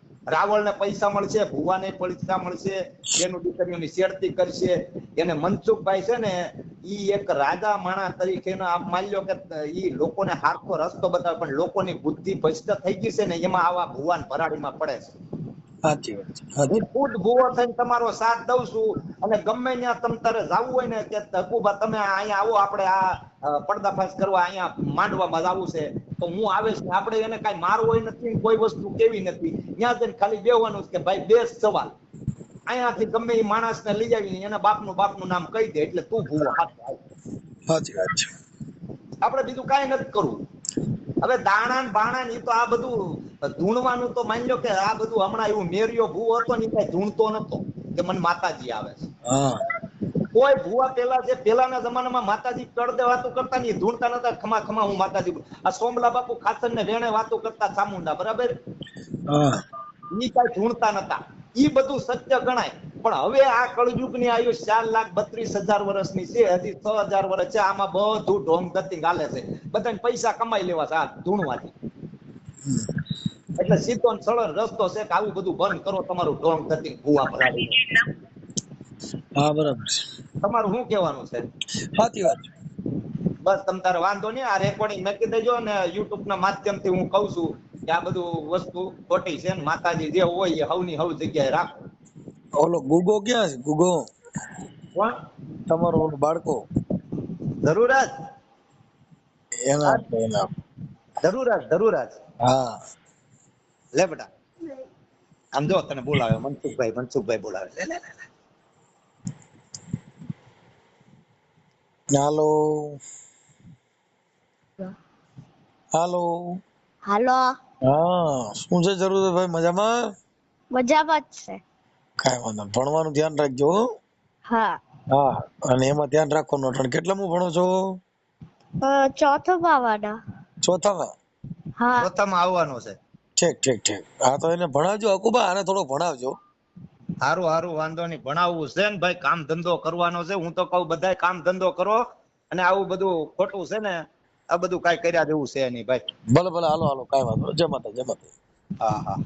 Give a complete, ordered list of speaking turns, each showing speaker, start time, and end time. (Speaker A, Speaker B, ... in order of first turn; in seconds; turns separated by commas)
Speaker A: 0.3-15.1, Speaker B: 15.9-16.8, Speaker A: 16.7-31.9, Speaker A: 32.7-37.0, Speaker B: 37.7-38.3, Speaker A: 39.2-40.4, Speaker A: 41.2-49.1, Speaker B: 49.3-49.6, Speaker A: 50.3-58.5, Speaker B: 59.3-59.5, Speaker A: 60.1-71.7, Speaker A: 73.6-77.8, Speaker B: 79.4-80.1, Speaker A: 80.4-81.5, Speaker B: 82.0-82.5, Speaker A: 83.4-91.8, Speaker B: 92.6-94.1, Speaker B: 95.7-96.6, Speaker A: 97.6-98.1, Speaker B: 99.7-100.5, Speaker A: 101.2-102.2, Speaker B: 102.4-102.7, Speaker A: 103.9-104.3, Speaker A: 105.5-108.1, Speaker B: 112.1-113.0, Speaker B: 115.9-116.6, Speaker C: 117.1-117.5, Speaker B: 117.9-119.9, Speaker C: 120.7-121.6, Speaker B: 122.2-123.8, Speaker C: 124.5-124.8, Speaker B: 125.1-128.0, Speaker C: 128.8-130.2, Speaker B: 130.6-131.1, Speaker C: 131.8-132.1, Speaker A: 132.0-133.0, Speaker B: 133.4-136.4, Speaker A: 137.2-144.0, Speaker A: 144.5-146.0, Speaker B: 146.3-148.3, Speaker A: 148.8-149.2